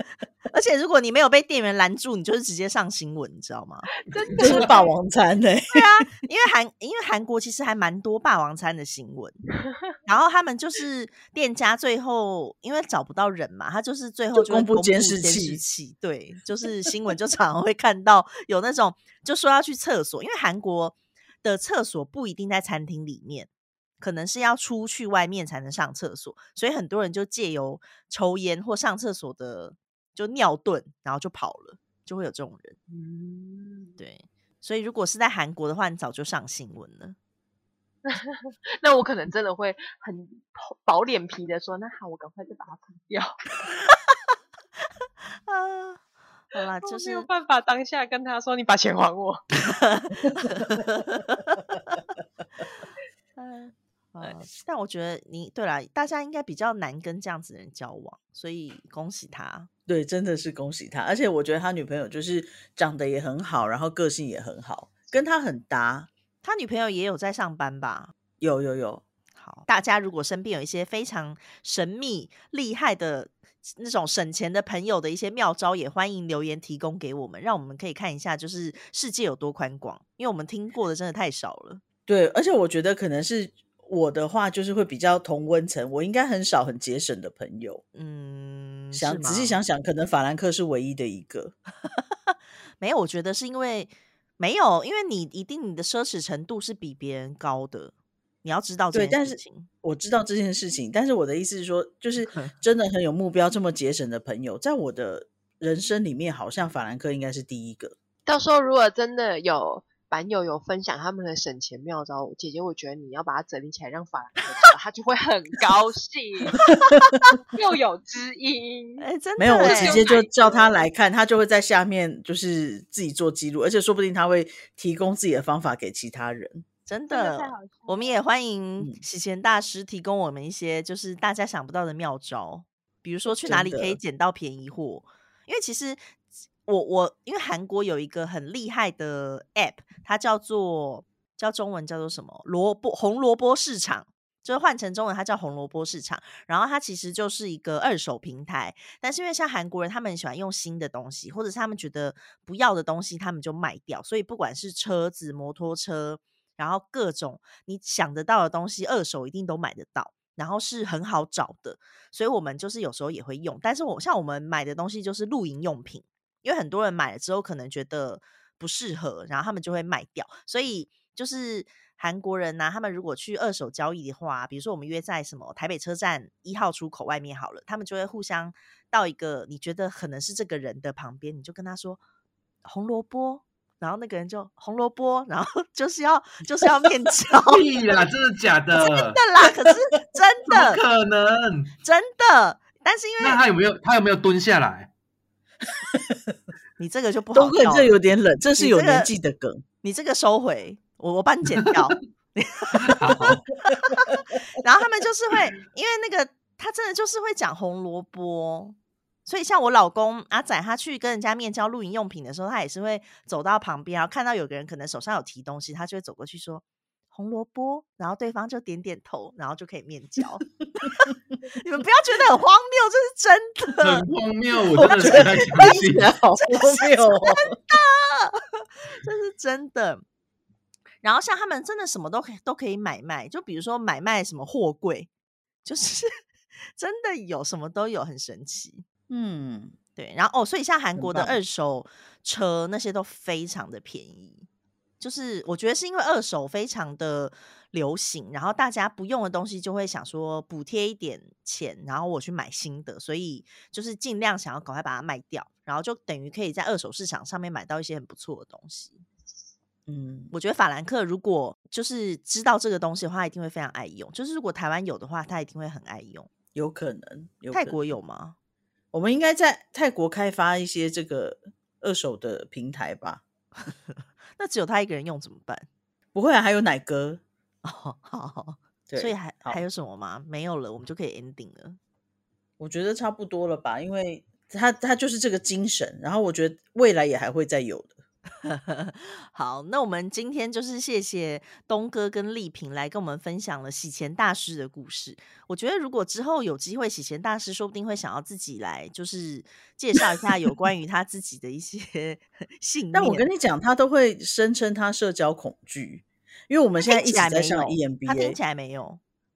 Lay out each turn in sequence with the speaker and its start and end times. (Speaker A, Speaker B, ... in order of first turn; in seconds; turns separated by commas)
Speaker A: 0.5-3.9, Speaker B: 4.1-4.9, Speaker C: 4.4-6.0, Speaker A: 5.7-9.4, Speaker A: 10.1-23.5, Speaker C: 14.3-15.6, Speaker A: 24.0-32.8, Speaker B: 32.9-34.0, Speaker A: 34.0-37.2, Speaker B: 38.0-43.3, Speaker A: 45.5-47.3, Speaker B: 46.8-49.4, Speaker A: 49.6-52.0, Speaker A: 53.4-59.7, Speaker C: 59.9-66.1, Speaker A: 66.4-68.1, Speaker C: 68.4-69.0, Speaker A: 69.4-81.8, Speaker C: 82.1-87.8, Speaker A: 88.0-89.6, Speaker C: 88.9-91.5, Speaker A: 91.8-99.7, Speaker C: 98.9-108.0, Speaker A: 102.3-102.5, Speaker B: 108.3-116.7, Speaker C: 116.7-117.2, Speaker B: 117.5-120.8, Speaker A: 119.0-120.1, Speaker C: 119.4-126.7, Speaker A: 126.9-136.0, Speaker B: 127.1-128.2, Speaker C: 133.5-134.0, Speaker A: 136.7-182.0, Speaker A: 182.6-187.6, Speaker D: 187.5-189.2, Speaker A: 188.8-190.8, Speaker D: 190.5-191.7, Speaker A: 191.8-193.4, Speaker D: 193.2-194.9, Speaker A: 196.8-197.9, Speaker C: 197.3-199.6, Speaker A: 198.6-199.1, Speaker A: 199.8-224.1, Speaker D: 202.7-203.5, Speaker C: 203.7-204.0, Speaker D: 223.8-226.1, Speaker C: 224.8-227.6, Speaker A: 224.8-225.8, Speaker A: 226.3-230.0, Speaker A: 231.0-235.1, Speaker A: 235.6-236.1, Speaker A: 236.8-238.8, Speaker C: 239.1-239.8, Speaker A: 240.0-244.5, Speaker C: 241.0-241.4, Speaker A: 245.0-259.0, Speaker C: 259.9-260.3, Speaker A: 260.3-266.3, Speaker C: 266.6-267.8, Speaker A: 267.5-268.4, Speaker C: 268.9-273.2, Speaker A: 274.4-275.7, Speaker C: 276.1-277.2, Speaker A: 277.6-281.8, Speaker C: 278.9-279.6, Speaker C: 282.6-288.0, Speaker A: 288.4-303.3, Speaker C: 302.9-308.4, Speaker A: 306.8-309.0